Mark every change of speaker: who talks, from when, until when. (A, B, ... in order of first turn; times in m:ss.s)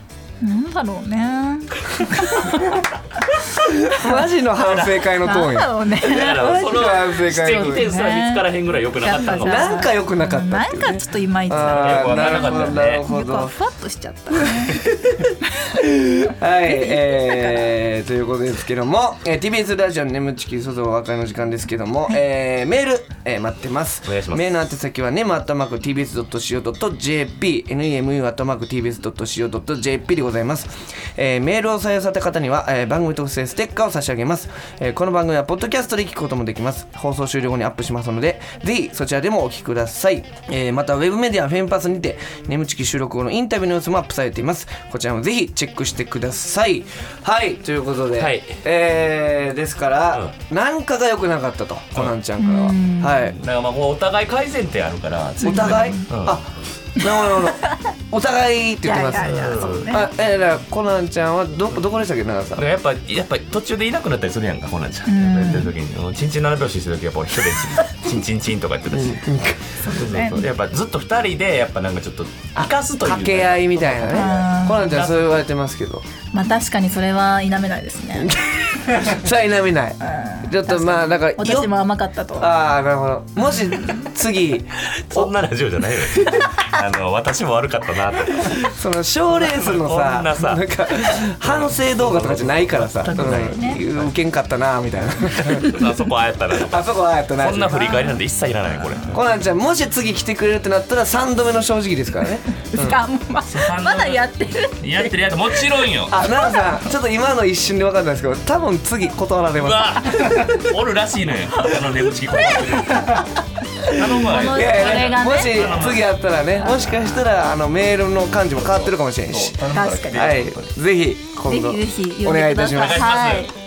0:00.4-0:04.2 A
0:03.6-0:07.9 B
0:05.0-0:06.6 A
0:06.0-0:09.8 C
0:07.2-0:08.5 A
0:09.0-0:14.9 A
0:09.2-0:13.5 B
0:11.6-0:13.1 C
0:14.4-0:53.4 B
0:15.4-0:15.8 A
0:16.6-0:17.7 A
0:24.1-0:24.6 C
0:48.2-0:48.6 C
0:52.4-0:53.3 A
0:53.4-0:56.4 C
0:55.4-1:02.6 B
0:55.4-0:56.1 A
0:58.8-1:00.1 A
0:59.2-0:59.9 C
1:02.6-1:09.3 C
1:05.1-1:05.7 A
1:08.9-1:09.8 B
1:09.8-1:10.5 A
1:09.8-1:15.1 C
1:12.6-1:16.0 B
1:14.1-1:14.9 A
1:16.3-1:18.3 A
1:18.2-1:21.7 B
1:20.0-1:22.5 A
1:22.4-1:25.3 B
1:24.9-1:28.7 C
1:28.6-1:35.8 B
1:29.5-1:34.1 C
1:33.2-1:33.8 A
1:35.5-1:39.1 C
1:36.6-1:38.1 B
1:39.1-1:43.0 B
1:42.7-1:45.6 A
1:43.4-1:44.3 C
1:44.8-1:46.2 C
1:46.1-1:50.6 B
1:46.2-1:46.8 A
1:49.6-1:53.3 C
1:52.3-1:53.3 A
1:53.8-1:59.6 B
1:53.9-1:56.1 C
1:54.3-1:55.9 A
1:56.6-1:57.0 C
1:58.6-2:00.7 C
1:59.7-2:00.3 A
2:00.1-2:03.1 B
2:01.5-2:03.5 A
2:02.7-2:03.5 C